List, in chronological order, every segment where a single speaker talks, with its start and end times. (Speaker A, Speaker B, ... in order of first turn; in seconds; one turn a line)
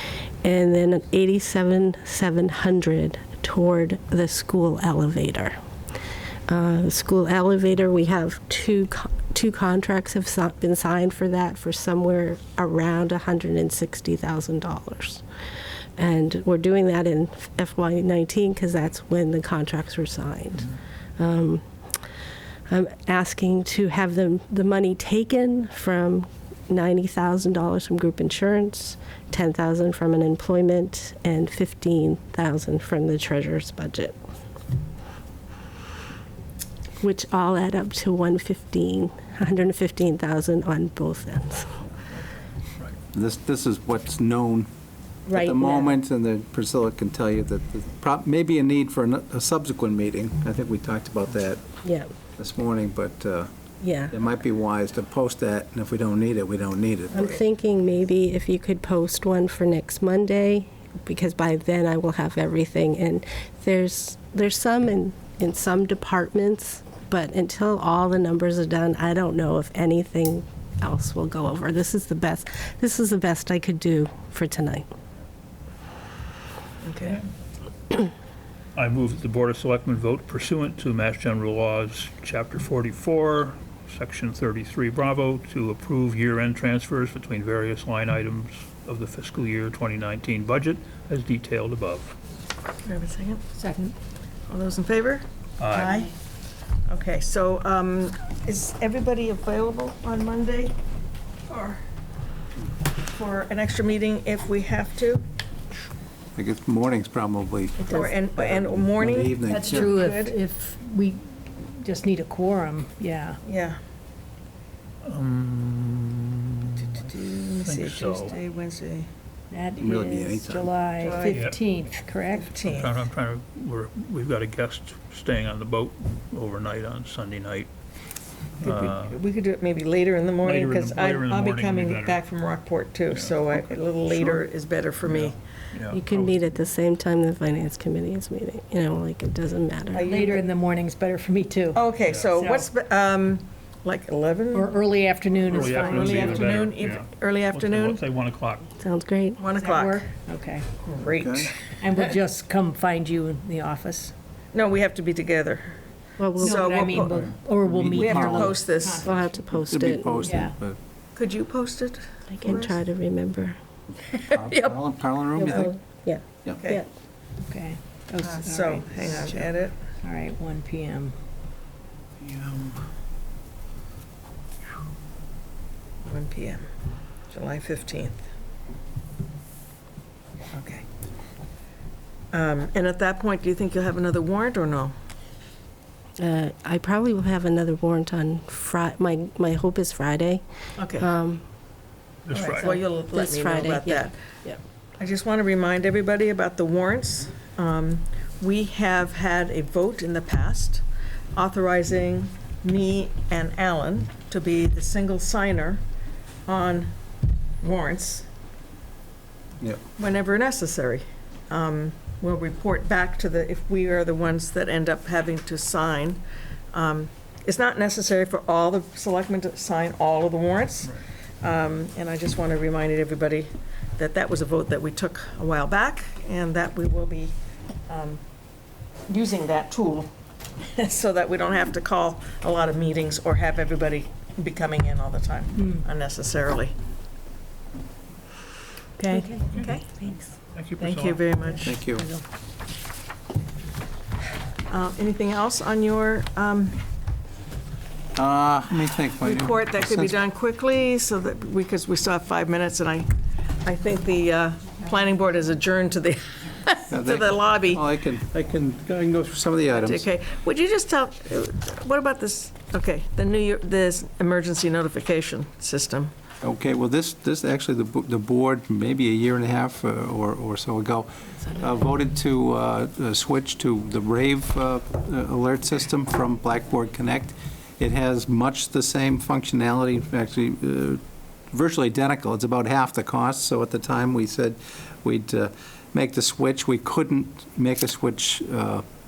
Speaker A: 0.4-5.6
Speaker A: 6.5-15.2
Speaker A: 16.0-21.6
Speaker A: 22.7-34.1
Speaker A: 37.0-41.8
Speaker B: 43.1-44.7
Speaker A: 45.3-45.9
Speaker B: 45.3-51.7
Speaker A: 51.8-52.1
Speaker B: 52.4-53.5
Speaker A: 53.8-54.1
Speaker B: 54.1-57.4
Speaker A: 57.1-74.9
Speaker C: 76.8-77.2
Speaker D: 78.8-92.1
Speaker C: 92.8-93.4
Speaker E: 93.6-94.0
Speaker C: 94.5-96.1
Speaker D: 95.6-96.0
Speaker C: 96.9-100.8
Speaker C: 101.5-101.8
Speaker C: 103.1-105.2
Speaker B: 106.4-109.9
Speaker C: 107.8-110.3
Speaker E: 109.5-113.4
Speaker C: 113.4-113.8
Speaker D: 115.0-118.4
Speaker C: 116.8-119.1
Speaker E: 119.5-122.5
Speaker B: 119.8-120.7
Speaker C: 121.0-121.5
Speaker D: 121.2-121.6
Speaker C: 122.3-123.0
Speaker D: 122.7-127.7
Speaker D: 128.6-129.2
Speaker C: 128.6-135.4
Speaker D: 130.4-132.2
Speaker D: 133.1-134.4
Speaker D: 135.1-136.3
Speaker A: 135.9-140.1
Speaker C: 139.9-140.4
Speaker E: 140.0-142.7
Speaker C: 141.7-144.7
Speaker E: 144.5-146.7
Speaker C: 145.5-148.0
Speaker D: 145.5-148.7
Speaker A: 148.8-149.4
Speaker C: 149.4-150.1
Speaker E: 149.6-150.7
Speaker C: 150.8-151.8
Speaker B: 151.1-151.5
Speaker E: 151.8-154.1
Speaker C: 154.5-155.8
Speaker A: 156.2-156.8
Speaker C: 156.4-157.3
Speaker E: 156.4-159.5
Speaker B: 157.6-158.7
Speaker C: 157.9-159.1
Speaker A: 159.0-160.3
Speaker B: 159.6-160.8
Speaker E: 160.2-160.6
Speaker C: 161.2-162.8
Speaker A: 162.3-163.6
Speaker B: 164.3-165.7
Speaker A: 165.4-166.9
Speaker E: 167.5-171.2
Speaker C: 168.2-169.8
Speaker B: 172.2-172.8
Speaker C: 176.0-176.7
Speaker C: 177.3-178.2
Speaker C: 180.5-180.9
Speaker C: 182.3-184.9
Speaker A: 186.2-190.4
Speaker C: 190.8-191.1
Speaker A: 191.0-191.4
Speaker D: 192.2-192.8
Speaker C: 192.3-194.2
Speaker A: 192.7-194.6
Speaker C: 195.0-205.8
Speaker C: 206.5-206.9
Speaker C: 207.6-208.3
Speaker C: 210.0-227.3
Speaker C: 227.9-228.2
Speaker C: 229.1-230.1
Speaker C: 230.6-236.8
Speaker E: 235.6-235.8
Speaker E: 239.0-240.1
Speaker C: 239.5-239.9
Speaker D: 240.5-241.3
Speaker C: 240.8-241.8
Speaker E: 241.5-242.2
Speaker B: 241.6-242.1
Speaker C: 244.7-246.8
Speaker B: 248.2-250.2
Speaker C: 249.2-253.1
Speaker C: 253.6-257.8
Speaker B: 256.9-260.1
Speaker C: 259.7-266.1
Speaker B: 266.4-288.9